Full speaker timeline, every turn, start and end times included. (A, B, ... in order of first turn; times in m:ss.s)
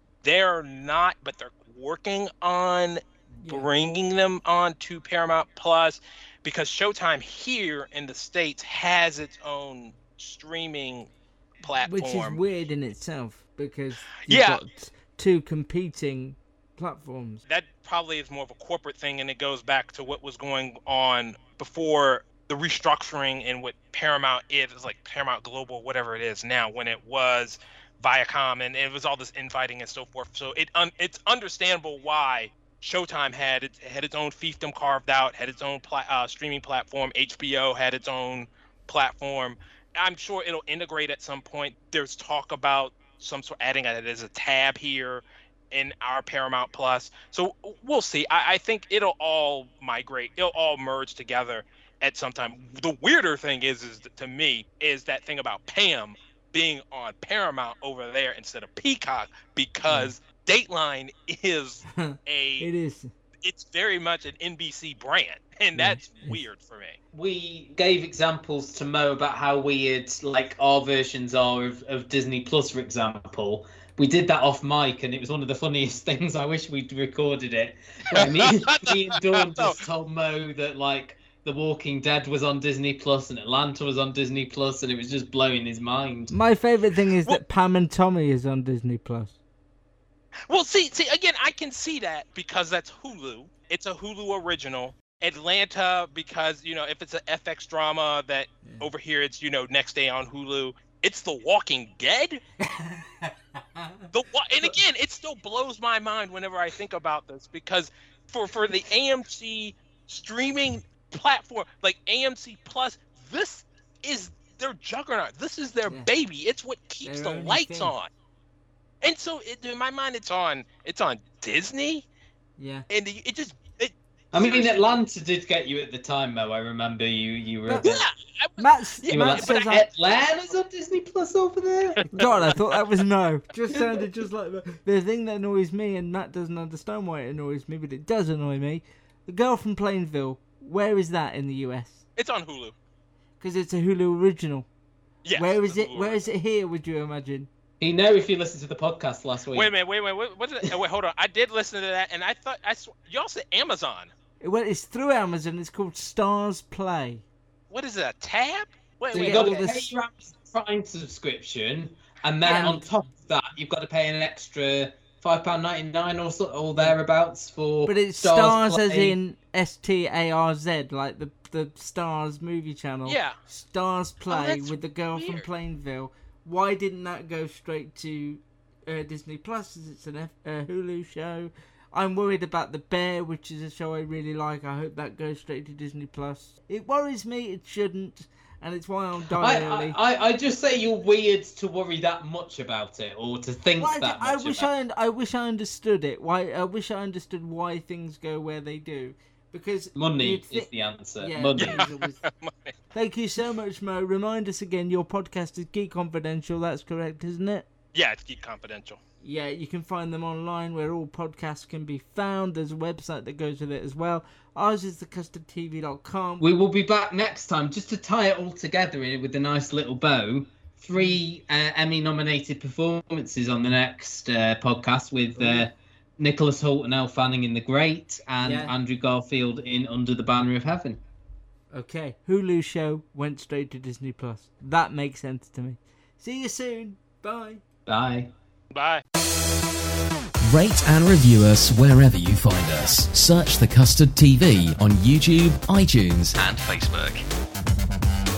0:00.2-0:11.1 A
0:03.4-0:03.7 B
0:11.6-0:12.4 A
0:11.8-0:17.4 B
0:14.3-0:14.6 A
0:17.5-1:02.7 A
0:59.9-1:00.1 B
1:01.9-1:03.1 B
1:03.4-1:07.0 A
1:05.7-1:06.4 B
1:07.1-1:26.3 C
1:18.1-1:19.8 A
1:26.3-1:29.4 B
1:30.5-1:42.4 A
1:38.6-1:38.9 B
1:42.6-1:44.1 B
1:44.1-1:58.1 A
1:57.0-1:57.9 B
1:59.0-2:02.0 A
2:02.6-2:02.8 B
2:02.9-2:04.8 A
2:04.3-2:08.1 C
2:07.6-2:07.9 B
2:07.8-2:09.6 A
2:08.6-2:09.8 B
2:09.1-2:12.1 C
2:12.1-2:22.0 B
2:22.2-2:22.7 A
2:23.4-2:24.7 B
2:25.2-2:26.2 A
2:25.4-2:27.5 B
2:27.8-2:29.7 C
2:29.5-2:34.1 A
2:34.4-2:37.2 B
2:37.7-2:39.7 A
2:39.1-2:39.9 B
2:39.1-2:49.2 C
2:42.4-2:42.9 B
2:47.8-3:10.0 B
2:53.0-2:53.4 A
2:54.3-2:55.4 A
3:09.4-3:14.7 C
3:13.8-3:22.2 B
3:20.0-3:21.9 C
3:21.6-3:22.7 A
3:22.9-3:27.7 B
3:27.9-3:29.0 A
3:29.2-3:36.4 B
3:36.4-3:51.0 C
3:40.9-3:41.2 B
3:45.4-3:45.7 B
3:48.4-3:48.7 B
3:51.7-3:57.6 B
3:57.8-3:58.3 C
3:58.7-3:59.0 A
4:00.4-4:07.2 D